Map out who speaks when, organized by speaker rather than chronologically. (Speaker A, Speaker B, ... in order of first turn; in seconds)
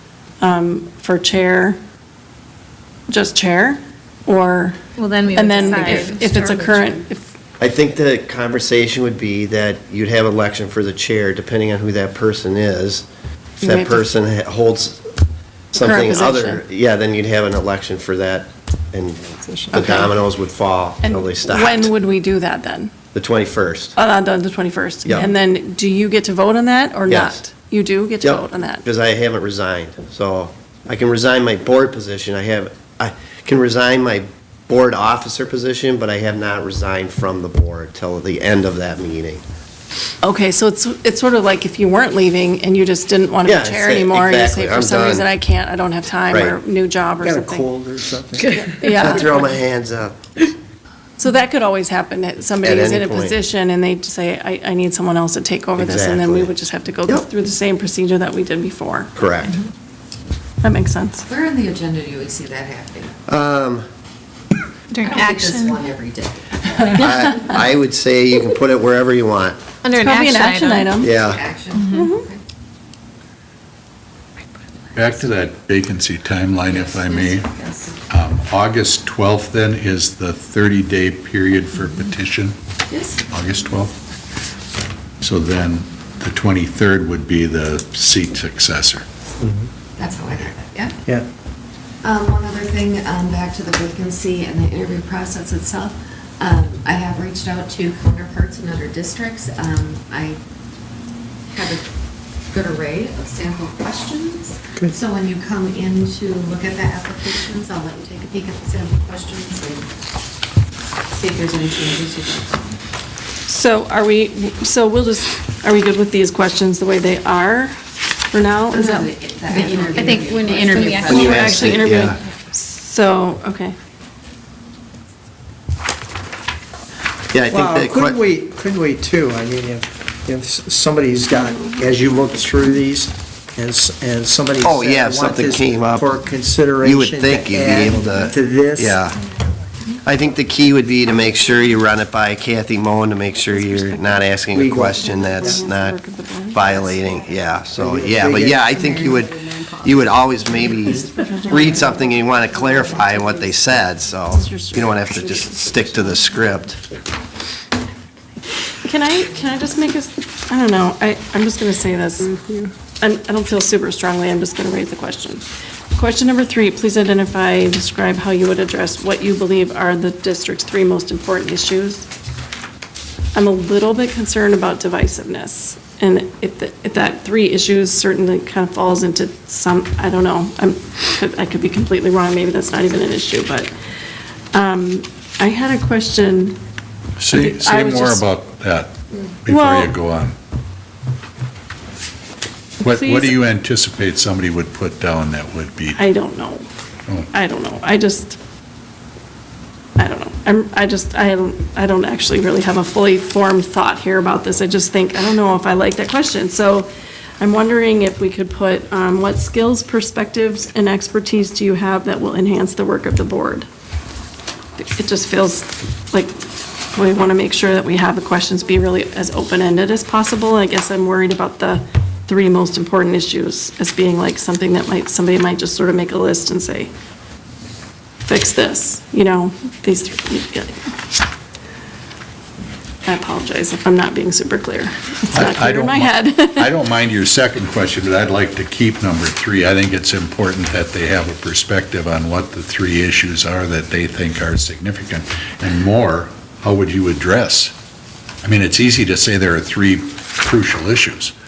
Speaker A: 0.4-1.8, 3.1-7.3, 13.6-14.1, 15.7-16.6, 19.7-20.1, 21.0-22.9, 24.0-28.8, 40.2-47.7, 48.5-49.5, 51.2-59.1, 60.6-61.2, 67.0-67.4, 70.0-71.1, 71.9-72.3, 113.5-117.8, 118.3-119.1, 120.7-123.8, 143.5-144.3, 145.0-146.7, 150.9-152.8, 154.3-156.1, 158.8-172.1, 173.3-183.7, 184.5-186.6, 187.3-188.2, 189.5-189.9, 192.8-193.4, 195.9-196.7, 197.3-198.4, 200.0-213.7, 214.8-226.9, 228.3-230.9, 233.1-236.7
Speaker B: 5.0-7.0, 64.9-65.8, 69.8-71.0, 71.8-72.1, 119.5-121.7
Speaker C: 7.6-13.1, 13.6-15.1, 15.7-21.9, 23.1-23.9, 27.1-27.4, 28.2-39.4, 43.5-45.3, 46.3-46.6, 48.8-50.2, 52.6-53.4, 55.8-56.5, 59.2-59.6, 63.3-63.9, 66.9-69.6, 71.0-71.4, 121.1-122.2, 127.3-128.2, 134.6-136.1, 136.8-139.2, 140.1-146.0, 146.5-156.8
Speaker D: 47.2-48.5, 89.4-89.7, 127.5-139.0, 144.5-145.6, 147.8-148.7
Speaker E: 61.3-63.1, 65.0-66.8, 71.1-72.4, 76.7-78.0, 82.9-83.2, 90.0-91.0, 92.0-100.4, 101.5-101.8, 102.5-109.9, 111.1-112.8, 118.7-121.4
Speaker F: 75.0-77.5, 78.1-82.6, 83.3-84.0, 85.2-89.0, 187.2-190.3, 192.8-196.0, 235.3-247.7, 248.4-251.3